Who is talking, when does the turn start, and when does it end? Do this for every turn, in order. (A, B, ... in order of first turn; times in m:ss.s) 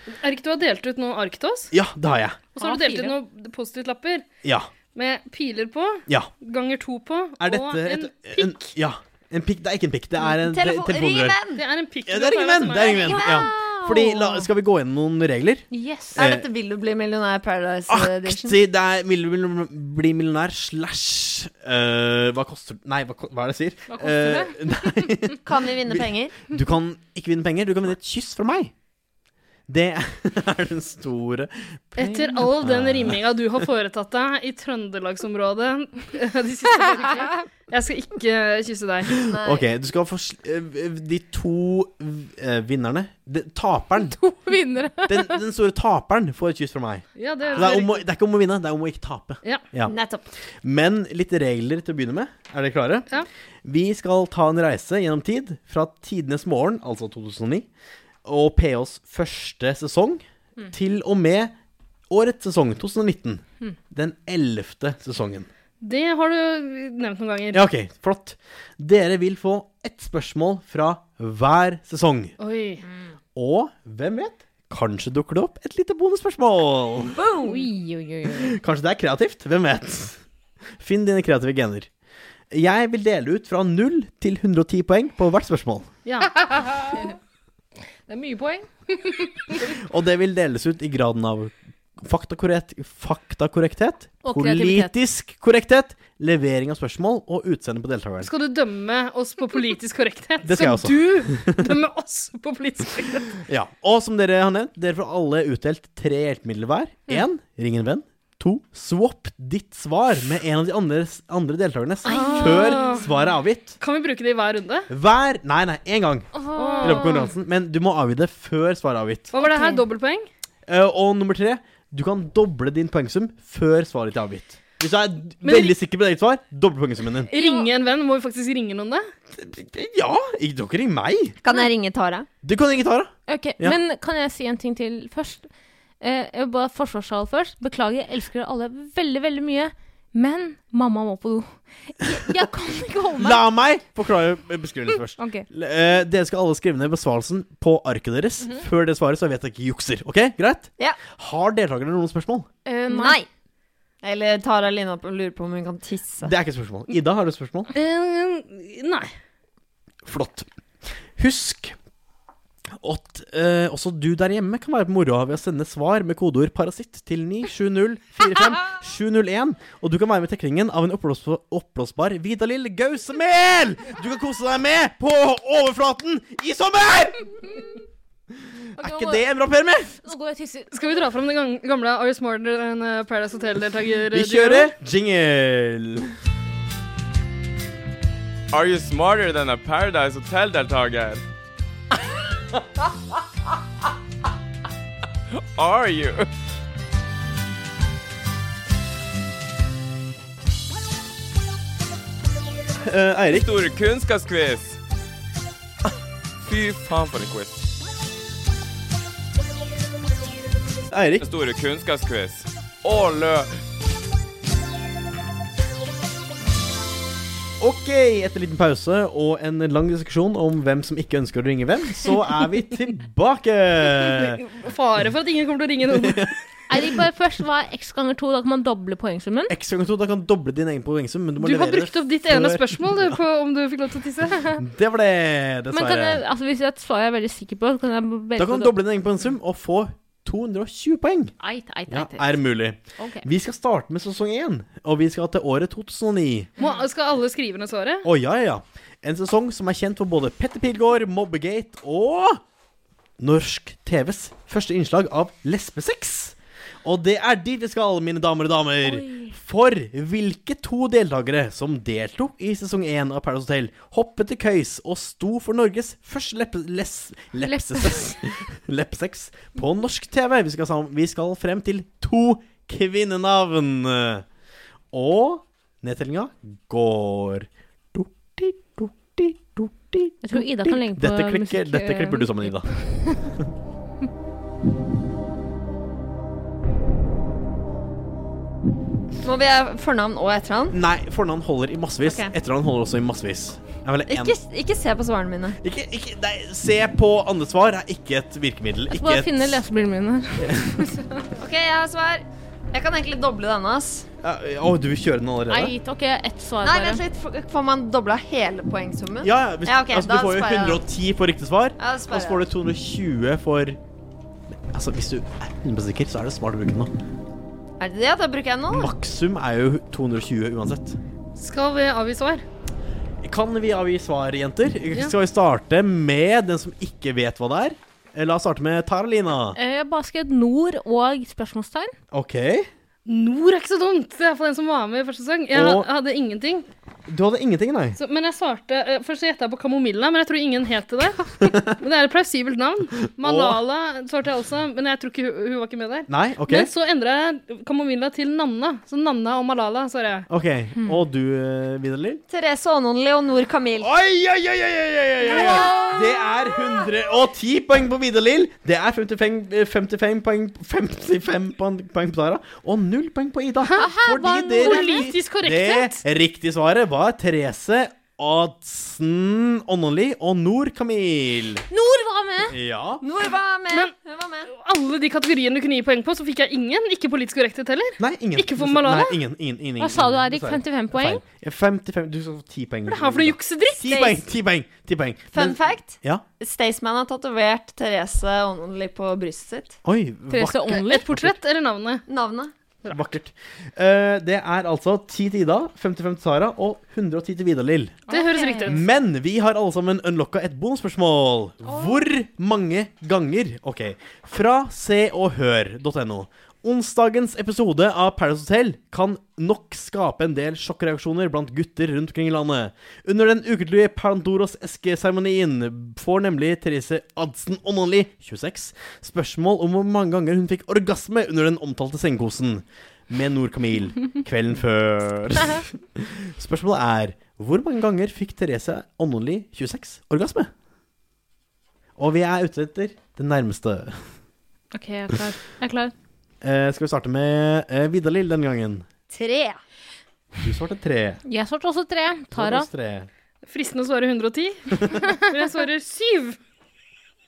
0:00.2-0:01.7 A
0:01.7-0:02.4 B
0:02.6-0:04.2 A
0:02.6-0:03.2 C
0:04.4-0:04.7 B
0:05.0-0:08.7 A
0:07.4-0:11.4 B
0:10.4-0:11.6 D
0:11.6-0:13.2 A
0:12.1-0:16.5 B
0:13.0-0:13.5 D
0:13.2-0:14.4 C
0:15.7-0:16.2 C
0:16.2-0:18.6 D
0:17.9-0:28.7 B
0:23.9-0:25.1 C
0:25.4-0:26.4 D
0:29.7-0:33.2 B
0:32.0-0:39.1 A
0:39.3-0:44.2 B
0:39.3-0:39.7 D
0:44.0-0:45.4 C
0:45.1-0:50.0 B
0:47.2-0:48.0 A
0:49.8-0:50.3 D
0:50.6-0:53.1 B
0:53.6-0:57.7 B
0:58.2-1:01.5 B
1:02.1-1:05.5 B
1:05.8-1:07.7 A
1:07.5-1:12.3 B
1:12.4-1:12.8 A
1:13.4-1:17.2 B
1:17.1-1:17.7 D
1:17.4-1:18.6 C
1:18.4-1:20.2 B
1:20.8-1:21.9 B
1:22.5-1:25.9 B
1:26.1-1:26.3 A
1:26.5-1:27.0 C
1:28.1-1:29.2 C
1:29.8-1:38.3 B
1:34.2-1:35.0 C
1:38.2-1:43.4 A
1:40.4-1:41.7 B
1:43.5-1:53.8 B
1:52.1-1:53.0 A
1:52.1-1:53.0 C
1:53.8-1:54.9 A
1:54.9-1:59.3 B
1:56.3-1:57.3 C
1:56.6-1:57.3 A
1:59.3-2:00.3 A
1:59.4-1:59.8 C
2:00.7-2:07.3 B
2:05.4-2:05.8 A
2:07.3-2:07.7 C
2:07.3-2:09.0 A
2:09.3-2:11.4 B
2:11.4-2:12.3 D
2:12.4-2:13.8 B
2:13.3-2:15.5 C
2:16.0-2:23.4 C
2:23.2-2:32.5 B
2:25.2-2:25.5 C
2:32.7-2:33.2 C
2:32.9-2:33.3 D
2:34.0-2:36.3 D
2:36.2-2:37.7 B
2:37.7-2:39.1 A
2:40.0-2:40.5 B
2:41.2-2:41.8 B
2:42.8-2:57.6 B
2:58.8-2:59.2 C
2:58.8-3:00.0 B
3:00.0-3:01.0 C
3:00.7-3:04.7 A
3:04.1-3:06.1 B
3:08.5-3:11.2 E
3:15.6-3:16.3 E
3:22.8-3:23.5 B
3:23.3-3:24.8 E
3:26.4-3:27.7 E
3:30.9-3:31.3 B
3:31.2-3:33.5 E
3:37.6-3:44.4 B
3:44.2-3:46.3 A
3:45.9-3:46.3 B
3:46.7-3:49.5 C
3:49.5-3:53.2 B
3:51.4-3:54.4 A
3:54.6-3:56.2 B
3:55.7-3:58.8 C
3:58.4-4:01.3 B
4:01.4-4:02.4 C
4:01.9-4:06.5 B
4:03.0-4:03.3 C
4:06.6-4:08.1 A
4:08.0-4:12.4 B
4:13.2-4:34.2 B
4:18.8-4:19.4 C
4:27.4-4:28.2 C
4:34.9-4:42.7 B
4:40.2-4:43.2 C
4:49.2-4:50.8 D
4:50.7-4:54.4 B
4:52.0-4:52.3 D
4:54.1-4:55.6 D
4:55.6-4:59.6 B
4:58.9-5:01.2 C
5:00.4-5:00.8 B
5:01.4-5:04.1 D
5:04.2-5:05.8 B
5:05.5-5:07.0 C
5:06.6-5:10.8 D
5:09.2-5:13.8 B
5:11.8-5:12.5 D
5:14.7-5:16.9 B
5:17.8-5:18.9 D
5:18.7-5:21.0 B
5:21.4-5:22.4 A
5:23.2-5:29.6 B
5:29.6-5:31.9 C
5:32.1-5:32.7 B
5:33.1-5:36.7 A
5:35.5-5:35.9 B
5:37.1-5:38.0 B
5:38.0-5:50.3 A
5:41.4-5:41.7 B
5:43.2-5:43.6 B
5:46.1-5:46.7 B
5:50.3-5:52.2 B
5:52.3-5:53.9 D
5:53.8-6:11.7 B
5:55.3-5:56.3 C
6:03.8-6:05.0 C
6:04.6-6:06.0 A
6:11.7-6:12.6 C
6:12.5-6:13.0 B
6:13.0-6:14.5 D
6:14.5-6:19.2 A
6:18.0-6:26.2 B
6:19.8-6:21.2 C
6:22.9-6:24.0 A
6:23.9-6:24.2 D
6:25.3-6:29.8 D
6:29.8-6:31.4 B
6:30.3-6:31.0 C
6:30.9-6:32.0 A
6:32.1-6:32.5 D
6:32.9-6:38.0 B
6:38.1-6:38.8 C
6:38.1-6:38.8 A
6:38.7-7:10.5 B
6:41.6-6:42.0 C
7:12.0-7:14.0 B
7:14.7-7:15.9 C
7:16.4-7:18.9 B
7:19.1-7:19.6 D
7:20.4-7:21.2 B
7:21.3-7:22.7 C
7:22.3-7:23.1 B
7:23.5-7:26.4 A